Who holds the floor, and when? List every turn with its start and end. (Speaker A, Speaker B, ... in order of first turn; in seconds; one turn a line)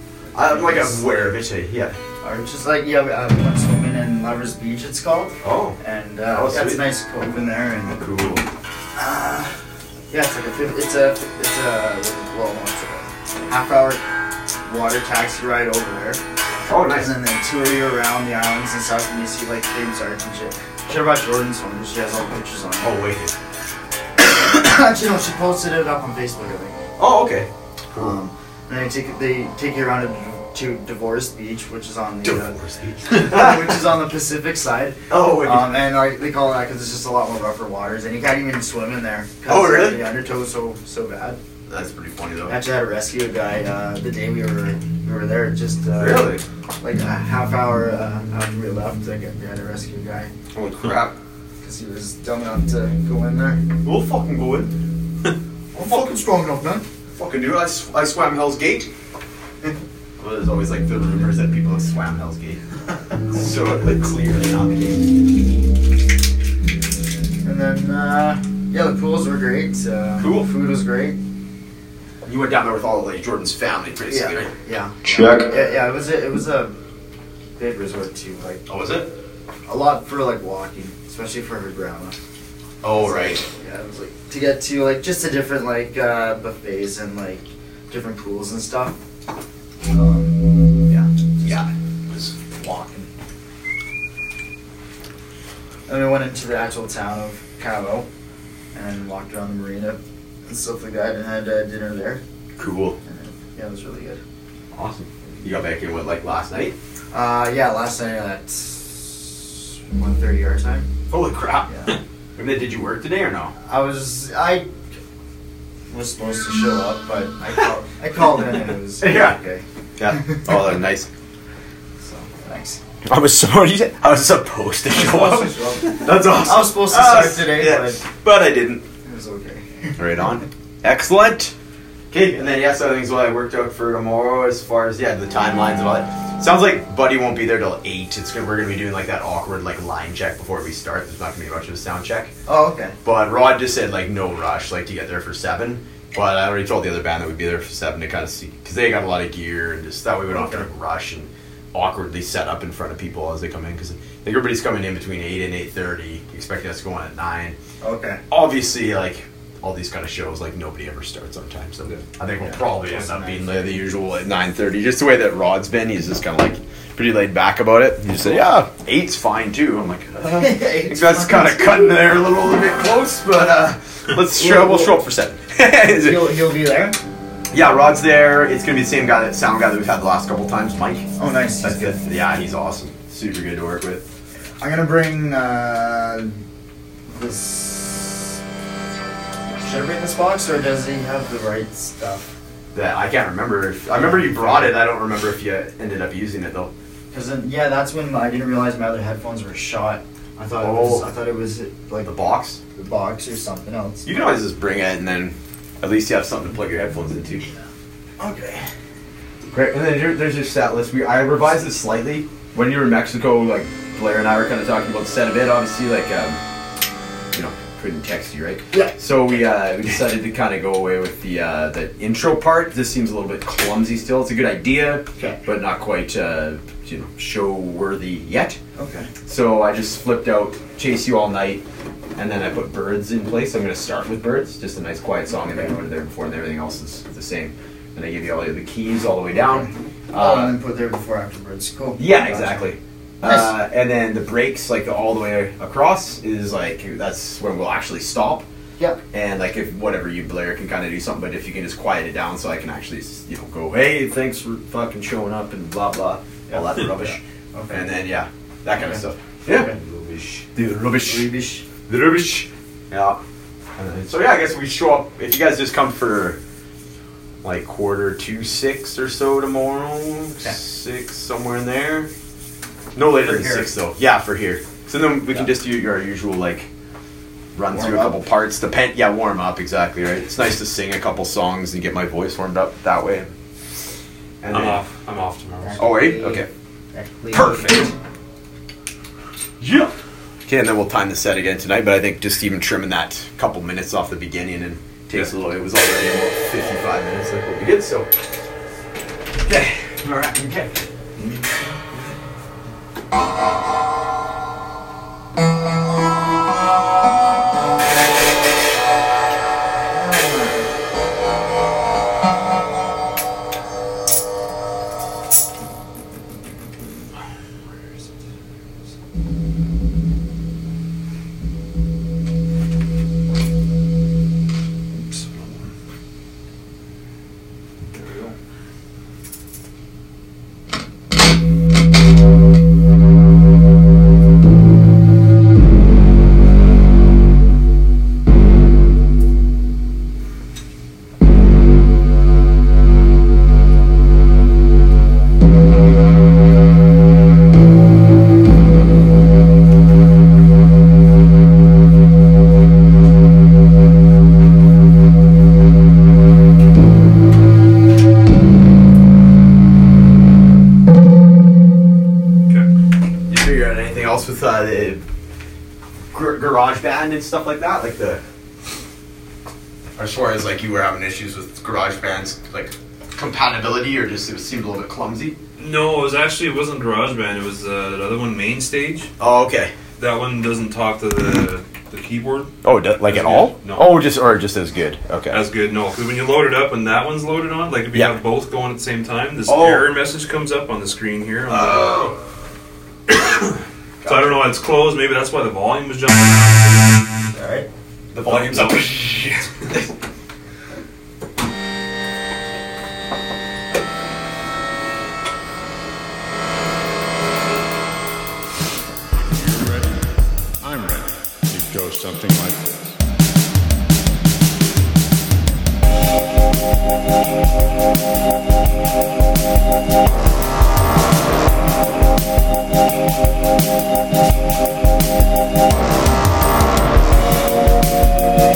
Speaker A: 0.3-1.9
Speaker B: 0.3-1.2
Speaker B: 2.2-8.0
Speaker A: 5.4-5.8
Speaker A: 6.3-6.8
Speaker A: 7.9-8.4
Speaker B: 8.9-9.5
Speaker B: 10.1-14.0
Speaker B: 14.6-16.2
Speaker A: 16.7-17.1
Speaker B: 17.0-22.9
Speaker A: 22.8-23.3
Speaker B: 24.2-26.8
Speaker A: 27.0-28.1
Speaker B: 27.9-41.4
Speaker A: 32.2-33.7
Speaker A: 35.1-35.7
Speaker A: 39.5-40.0
Speaker A: 41.7-42.5
Speaker B: 42.5-50.3
Speaker A: 46.0-46.4
Speaker A: 50.5-51.1
Speaker B: 51.6-53.6
Speaker A: 53.8-54.7
Speaker B: 55.7-56.8
Speaker A: 55.8-56.1
Speaker A: 57.1-58.9
Speaker A: 60.2-62.6
Speaker A: 63.3-65.1
Speaker B: 67.4-71.2
Speaker A: 70.2-70.5
Speaker A: 72.2-74.5
Speaker B: 74.1-76.7
Speaker A: 75.2-75.4
Speaker B: 77.6-78.6
Speaker A: 78.7-79.1
Speaker B: 79.7-82.2
Speaker A: 82.8-83.4
Speaker B: 82.9-89.0
Speaker B: 89.9-90.4
Speaker A: 90.9-92.3
Speaker B: 92.4-93.1
Speaker B: 95.9-98.1
Speaker B: 98.7-102.2
Speaker A: 102.6-103.0
Speaker B: 103.0-104.2
Speaker A: 104.7-106.7
Speaker B: 107.1-110.9
Speaker A: 111.1-111.7
Speaker B: 111.7-112.0
Speaker A: 112.3-113.5
Speaker B: 113.7-114.7
Speaker B: 115.9-120.5
Speaker A: 119.0-119.4
Speaker A: 120.0-121.1
Speaker B: 122.0-122.8
Speaker A: 123.0-128.8
Speaker B: 124.9-128.0
Speaker B: 129.0-130.0
Speaker A: 130.0-131.5
Speaker A: 132.1-142.3
Speaker B: 142.4-142.9
Speaker A: 143.0-157.6
Speaker B: 150.3-150.7
Speaker B: 157.8-158.2
Speaker A: 158.3-176.4
Speaker B: 162.4-163.7
Speaker B: 170.2-172.0
Speaker B: 174.3-175.0
Speaker B: 175.9-177.0
Speaker A: 177.5-181.1
Speaker B: 181.2-182.0
Speaker A: 181.6-184.1
Speaker B: 184.6-186.4
Speaker B: 187.1-188.4
Speaker B: 189.5-192.2
Speaker A: 192.7-196.7
Speaker B: 193.9-194.8
Speaker B: 197.1-202.1
Speaker A: 200.6-201.1
Speaker A: 202.0-202.6
Speaker B: 202.8-204.1
Speaker A: 204.0-207.5
Speaker B: 208.2-208.7
Speaker A: 209.5-216.4
Speaker A: 217.3-228.6
Speaker B: 218.7-219.0
Speaker B: 225.2-225.4
Speaker B: 228.8-229.1
Speaker A: 229.2-231.6
Speaker A: 232.2-240.6
Speaker B: 235.4-235.7
Speaker B: 239.4-242.7
Speaker A: 242.0-248.4
Speaker B: 243.2-243.5
Speaker A: 249.1-261.3
Speaker B: 256.5-257.9
Speaker B: 258.8-259.8
Speaker B: 261.0-261.6
Speaker A: 261.9-263.2
Speaker A: 263.8-266.4
Speaker A: 267.4-272.1
Speaker A: 272.9-276.7
Speaker B: 273.2-273.7
Speaker A: 277.5-283.3
Speaker B: 277.7-278.2
Speaker A: 284.4-284.8
Speaker C: 284.5-285.8
Speaker B: 285.6-287.9
Speaker A: 285.8-286.5
Speaker A: 287.3-287.9
Speaker A: 289.6-289.9
Speaker A: 290.4-298.1
Speaker A: 299.4-300.9
Speaker B: 309.8-310.6
Speaker C: 324.9-325.7
Speaker C: 327.9-328.3
Speaker A: 363.3-365.0
Speaker A: 366.1-368.2
Speaker A: 370.0-375.4
Speaker C: 375.6-379.1
Speaker A: 379.2-379.7
Speaker C: 380.0-382.5
Speaker A: 382.6-385.4
Speaker C: 383.0-383.9
Speaker C: 385.3-392.1
Speaker A: 387.9-388.2
Speaker A: 389.5-389.9
Speaker A: 391.5-392.2
Speaker C: 393.1-396.9
Speaker A: 394.0-394.4
Speaker B: 397.3-397.7
Speaker A: 398.1-399.9
Speaker C: 398.3-399.3
Speaker D: 409.3-410.1
Speaker D: 410.6-412.9